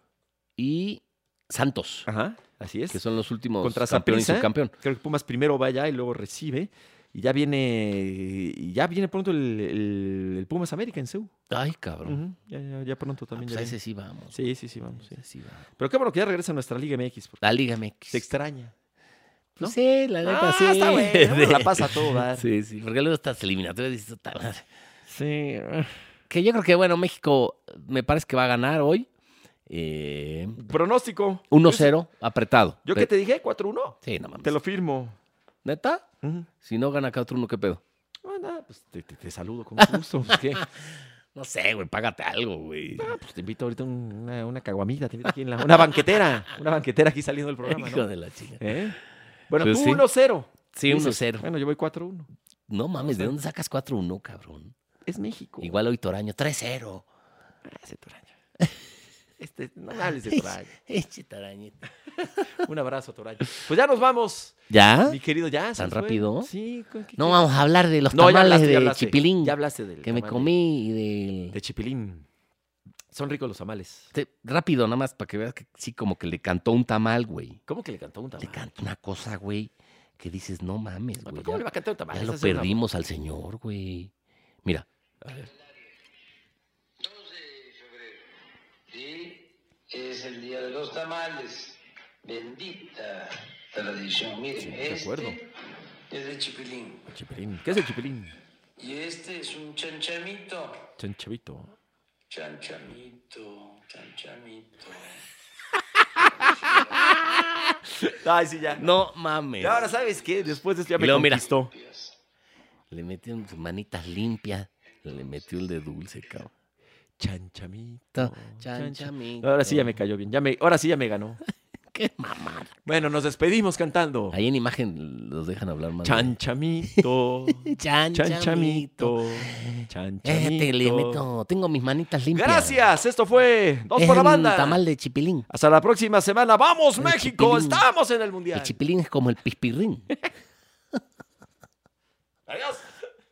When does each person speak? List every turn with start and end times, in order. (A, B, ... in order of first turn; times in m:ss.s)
0:00.6-0:02.1 A
0:02.1-0:03.0 B
0:02.9-0:04.7 A
0:03.6-0:11.3 B
0:11.5-0:12.2 A
0:12.0-0:13.7 B
0:13.3-0:14.5 A
0:14.3-0:15.2 B
0:15.1-0:15.6 A
0:15.8-0:17.4 B
0:17.4-0:18.2 A
0:18.1-0:18.7 B
0:19.6-0:24.7 A
0:19.6-0:22.5 B
0:25.1-0:25.9 B
0:26.3-0:29.1 A
0:29.7-0:30.6 A
0:30.6-0:31.9 B
0:31.5-0:33.1 A
0:32.8-0:35.2 B
0:34.0-0:34.6 A
0:35.6-0:36.0 A
0:36.2-0:36.5 B
0:36.6-0:37.8 A
0:38.2-0:40.6 B
0:39.8-0:43.1 A
0:43.0-0:48.1 B
0:47.6-0:48.8 A
0:48.6-0:49.0 B
0:49.5-0:52.3 B
0:49.6-0:50.0 A
0:50.7-0:51.5 A
0:52.7-0:54.7 A
0:53.0-0:53.3 B
0:55.1-0:55.7 B
0:55.6-0:57.0 A
0:57.6-0:58.3 B
0:59.4-1:00.7 B
1:00.3-1:01.8 A
1:02.2-1:07.4 B
1:04.7-1:05.2 A
1:05.8-1:06.5 A
1:07.2-1:11.6 A
1:08.1-1:10.5 B
1:11.5-1:12.3 B
1:13.1-1:14.1 B
1:14.1-1:17.6 A
1:17.7-1:18.7 B
1:18.4-1:24.1 A
1:21.2-1:22.8 B
1:25.2-1:25.5 B
1:27.0-1:28.3 C
1:28.9-1:35.5 C
1:34.6-1:35.4 B
1:36.1-1:37.1 C
1:37.1-1:38.3 B
1:38.8-1:40.9 C
1:41.0-1:41.7 B
1:42.3-1:45.2 C
1:46.2-1:48.1 A
1:46.4-1:47.5 C
1:48.2-1:48.9 B
1:48.8-1:49.9 A
1:49.6-1:51.7 B
1:51.0-1:51.5 A
1:51.7-1:52.1 C
1:52.9-1:56.5 A
1:57.2-2:01.4 B
1:58.1-1:59.9 A
2:01.9-2:02.7 A
2:02.8-2:04.4 B
2:04.3-2:06.3 A
2:06.0-2:11.2 B
2:07.5-2:12.8 A
2:12.3-2:14.8 B
2:13.9-2:15.4 A
2:15.5-2:18.8 B
2:17.0-2:17.8 A
2:18.5-2:20.1 A
2:22.5-2:22.9 B